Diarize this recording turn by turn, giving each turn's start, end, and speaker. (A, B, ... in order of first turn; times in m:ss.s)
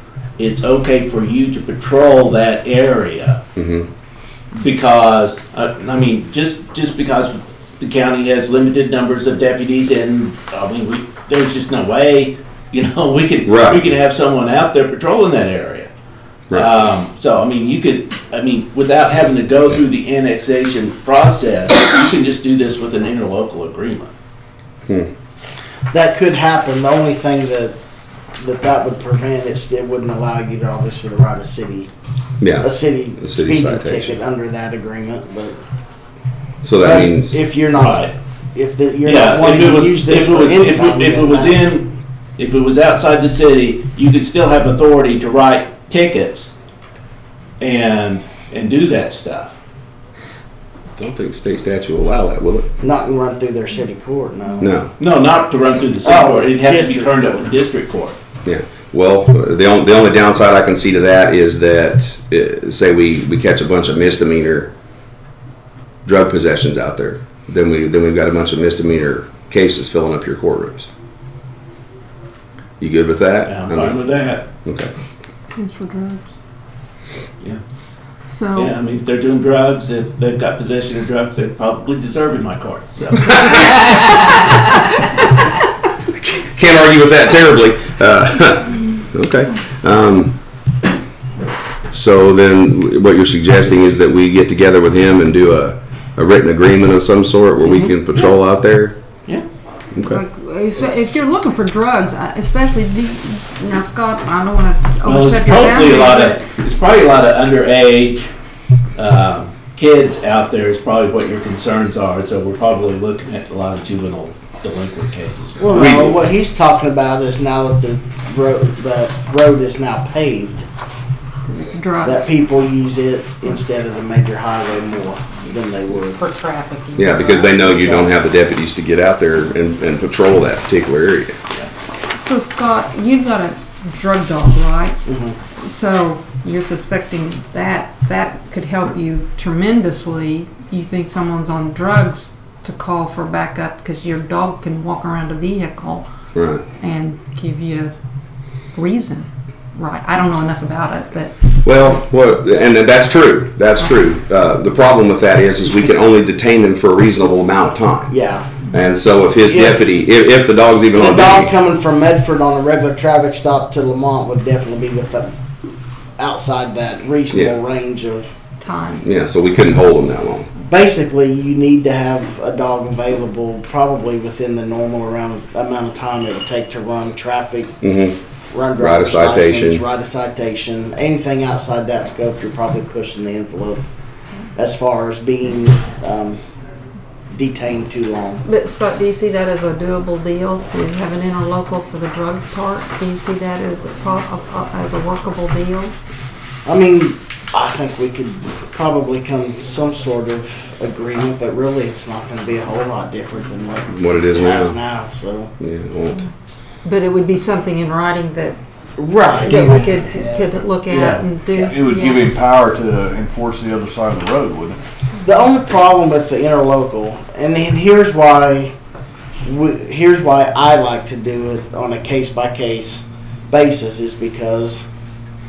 0:00.4-0:03.4 A
0:03.6-0:03.9 B
0:04.5-0:15.9 A
0:13.4-0:13.8 B
0:16.5-0:24.1 A
0:25.9-0:27.8 C
0:28.4-0:31.9 C
0:32.4-0:34.2 B
0:32.6-0:35.6 C
0:36.6-0:37.4 B
0:36.8-0:41.6 C
0:37.8-0:38.1 A
0:39.0-0:46.5 A
0:47.6-0:49.6 A
0:51.0-0:52.7 B
0:52.8-0:54.7 C
0:54.6-0:54.9 B
0:55.0-0:58.2 A
0:56.0-0:57.3 C
0:58.4-1:04.7 B
1:06.0-1:10.9 B
1:12.8-1:14.0 B
1:13.4-1:14.5 A
1:14.6-1:14.9 B
1:15.5-1:16.2 D
1:18.3-1:18.7 D
1:18.5-1:24.5 A
1:26.4-1:30.3 B
1:31.9-1:39.0 B
1:37.6-1:37.9 A
1:39.9-1:40.2 B
1:40.0-1:46.4 D
1:45.0-1:48.3 A
1:49.0-1:56.1 A
1:55.6-2:00.6 C
1:55.7-1:56.2 B
2:01.4-2:02.2 D
2:02.0-2:06.2 C
2:05.9-2:07.6 D
2:06.9-2:11.4 B
2:07.1-2:08.1 C
2:12.1-2:15.0 D
2:15.1-2:15.4 C
2:15.6-2:26.1 D
2:26.3-2:26.6 B
2:26.8-2:27.9 D
2:28.7-2:31.3 D
2:31.6-2:38.1 B
2:38.1-2:38.5 C
2:38.7-2:41.5 B
2:39.4-2:39.9 C
2:41.0-2:45.3 C
2:46.2-2:48.3 C
2:47.3-2:47.6 B
2:48.6-2:49.0 D
2:49.0-2:50.5 B
2:50.7-2:57.8 C
2:57.8-2:58.2 B
2:58.5-3:03.8 C
2:58.8-2:59.8 B
3:04.6-3:06.4 C
3:07.3-3:08.4 C
3:08.4-3:15.9 D
3:16.7-3:25.5 C
3:23.9-3:24.8 B
3:25.6-3:26.2 B
3:26.8-3:28.6 D
3:29.0-3:30.5 C
3:29.3-3:32.2 D
3:30.9-3:34.8 E
3:35.2-3:38.7 C
3:39.4-3:44.8 C